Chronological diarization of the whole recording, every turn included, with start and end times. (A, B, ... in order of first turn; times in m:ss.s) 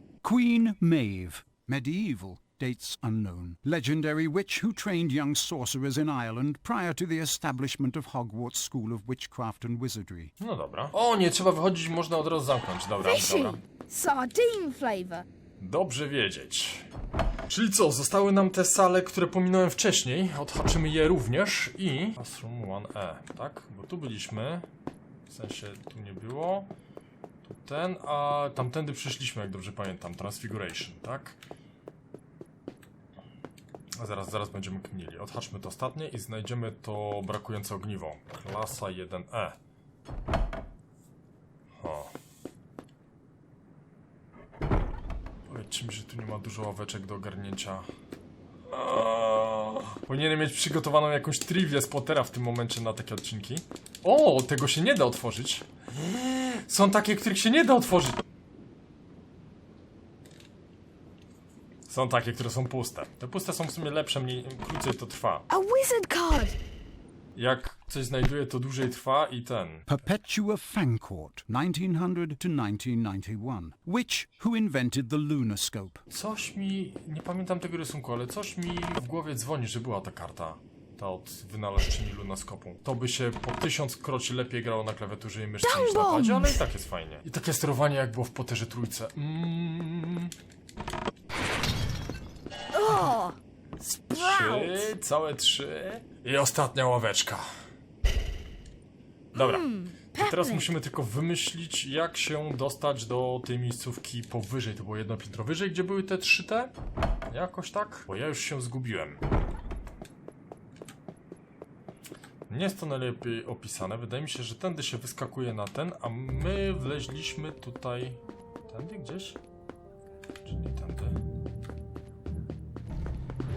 0:00.2-0:10.3 A
0:10.4-0:13.6 B
0:13.0-0:15.2 C
0:15.6-0:16.9 B
0:17.5-0:24.7 B
0:25.3-0:26.7 B
0:27.4-0:31.4 B
0:34.0-0:39.6 B
0:41.8-0:42.1 B
0:45.5-0:47.9 B
0:48.7-0:58.2 B
1:01.9-1:05.4 B
1:05.5-1:06.6 C
1:07.3-1:09.9 B
1:09.9-1:16.0 A
1:16.1-1:30.3 B
1:25.6-1:26.6 C
1:32.7-1:34.9 C
1:34.1-1:37.5 B
1:39.3-1:40.7 C
1:39.3-1:46.7 B
1:47.3-1:49.2 B
1:52.5-1:59.4 B
2:00.4-2:01.2 B